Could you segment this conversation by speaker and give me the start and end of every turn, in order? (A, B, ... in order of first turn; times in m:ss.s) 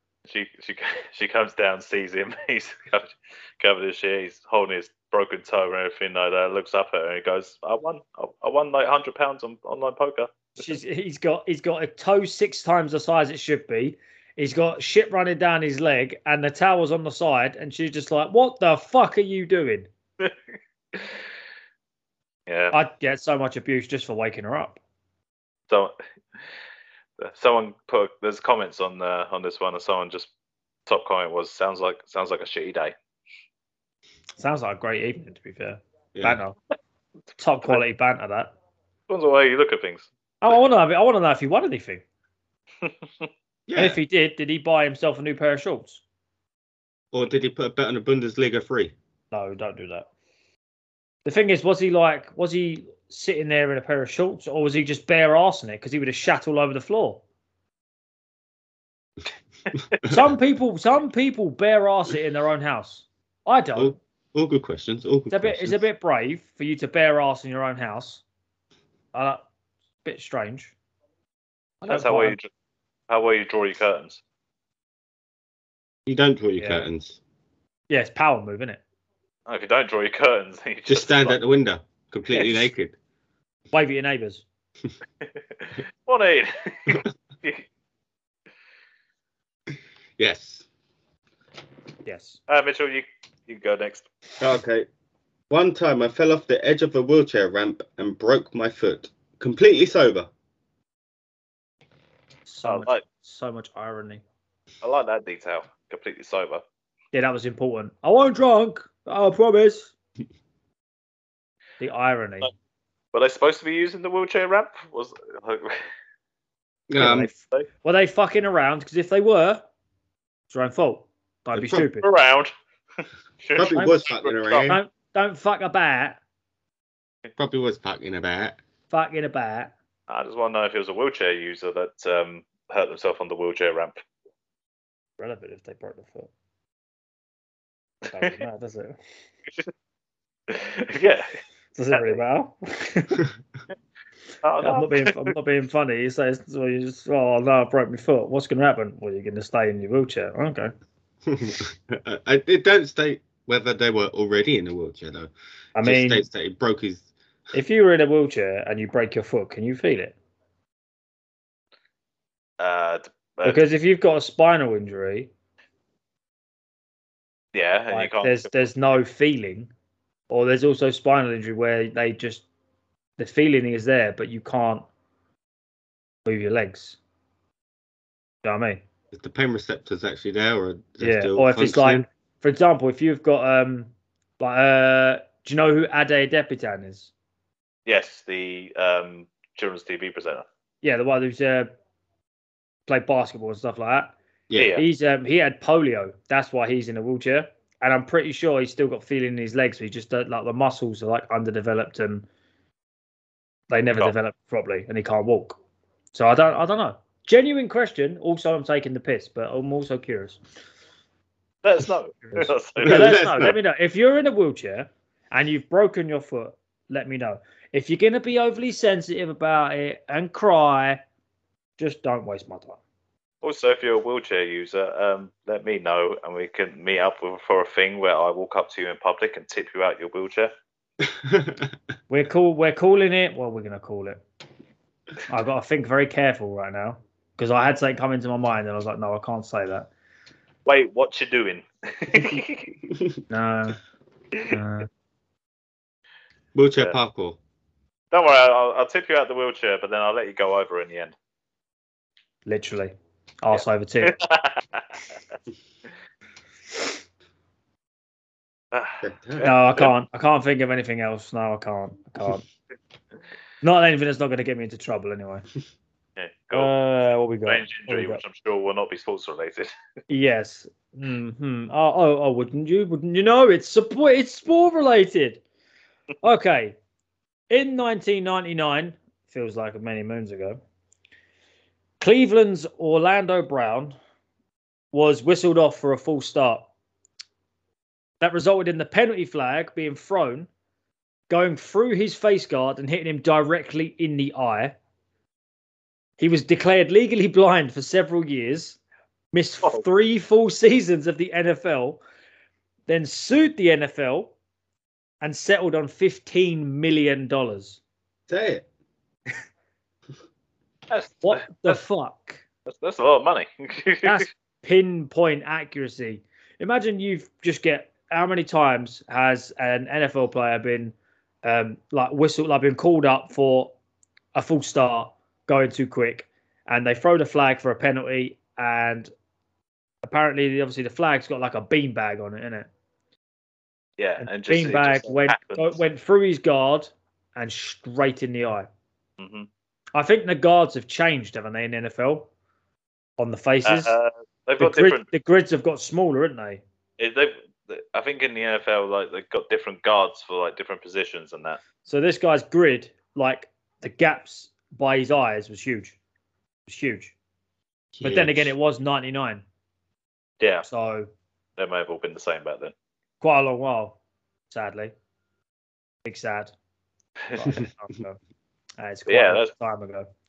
0:00.3-0:10.3 A
0:10.6-0:19.9 B
0:22.5-0:22.7 A
0:22.7-0:24.8 B
0:25.7-0:25.9 A
0:27.2-0:30.3 A
0:30.9-0:32.9 A
0:34.4-0:36.6 B
0:36.1-0:36.4 C
0:37.4-0:38.5 B
0:39.1-0:40.1 A
0:40.4-0:42.0 B
0:42.8-0:43.3 A
0:43.7-0:44.0 C
0:43.8-0:46.0 B
0:47.1-0:48.9 C
0:49.3-0:50.1 B
0:51.2-0:57.2 B
1:00.0-1:04.0 B
1:03.8-1:05.8 C
1:05.3-1:08.2 B
1:09.1-1:09.4 B
1:10.0-1:10.7 B
1:11.8-1:12.4 B
1:11.9-1:12.5 A
1:13.1-1:14.2 A
1:16.0-1:17.2 C
1:16.6-1:16.8 B
1:17.9-1:18.8 B
1:19.5-1:21.4 A
1:20.9-1:22.9 C
1:23.7-1:24.4 B
1:25.2-1:27.6 A
1:30.2-1:30.6 C
1:32.0-1:32.4 B
1:32.5-1:34.1 A
1:34.4-1:34.9 C
1:35.5-1:40.3 C
1:42.5-1:44.2 B
1:42.6-1:43.0 A
1:44.8-1:46.6 A
1:47.1-1:49.9 B
1:51.8-1:52.5 B
1:53.1-1:55.8 A
1:56.9-1:57.3 C
1:57.0-1:59.6 B
2:00.5-2:02.1 B
2:01.5-2:01.8 C
2:02.0-2:02.5 A
2:03.4-2:04.7 A
2:03.6-2:04.8 C
2:03.7-2:04.0 B
2:04.6-2:06.2 B
2:07.4-2:08.6 C
2:08.9-2:09.7 B
2:10.1-2:14.0 A
2:15.2-2:16.3 B
2:18.1-2:19.0 B
2:20.5-2:21.3 A
2:21.7-2:23.2 B
2:24.4-2:25.3 A
2:24.6-2:30.7 B
2:31.3-2:35.3 C
2:35.7-2:36.3 B
2:35.8-2:37.1 C
2:37.5-2:40.1 B
2:42.6-2:43.6 A
2:43.4-2:45.3 B
2:47.5-2:48.5 A
2:47.9-2:49.7 B
2:50.3-2:52.4 B
2:53.2-2:54.8 B
2:56.2-2:57.0 B
2:58.4-2:58.8 B
2:59.1-3:02.0 C
3:01.0-3:07.1 B
3:07.8-3:10.4 A
3:10.8-3:11.7 B
3:12.9-3:14.1 B
3:14.5-3:14.7 C
3:14.5-3:14.8 A
3:14.8-3:22.3 B
3:23.7-3:25.6 B
3:26.1-3:30.4 B
3:31.6-3:33.2 A
3:32.3-3:41.0 B
3:32.8-3:33.6 C
3:41.8-3:42.8 B
3:43.4-3:50.5 A
3:51.2-3:51.6 C
3:52.1-3:54.2 B
3:55.3-3:59.9 B
4:00.6-4:02.7 A
4:03.3-4:03.8 B
4:04.5-4:04.9 B
4:06.5-4:07.4 C
4:08.1-4:11.1 A
4:12.4-4:14.2 B
4:13.5-4:14.9 A
4:18.7-4:19.9 A
4:19.0-4:19.5 C
4:19.4-4:22.4 B
4:23.6-4:25.4 B
4:26.2-4:26.7 A
4:26.5-4:28.2 B
4:27.4-4:29.7 A
4:30.1-4:35.4 B
4:36.2-4:36.8 B
4:37.5-4:40.6 B
4:42.0-4:44.0 B
4:44.9-4:46.7 B
4:48.2-4:50.5 B
4:51.3-4:54.7 B
4:56.2-4:58.8 B
4:59.3-5:02.0 B
5:02.9-5:04.3 B
5:05.2-5:07.8 B
5:08.3-5:08.6 C
5:10.9-5:11.8 A
5:11.2-5:12.4 B
5:12.6-5:14.2 A
5:14.0-5:23.7 B
5:24.3-5:29.1 B
5:30.0-5:32.7 B
5:34.0-5:35.8 A
5:34.2-5:38.7 B
5:39.2-5:39.5 A
5:39.9-5:42.3 B
5:43.2-5:43.9 B
5:43.6-5:45.1 A
5:44.6-5:46.6 B
5:47.0-5:51.6 A
5:51.8-5:56.0 B
5:56.7-5:57.1 B
5:57.9-5:58.5 C
5:58.0-5:59.4 B
6:00.4-6:00.7 A
6:00.6-6:01.1 B
6:01.6-6:02.7 A
6:03.2-6:04.0 B
6:04.5-6:04.9 B
6:06.0-6:06.5 B
6:07.3-6:08.2 B
6:08.8-6:10.1 B
6:09.1-6:09.5 A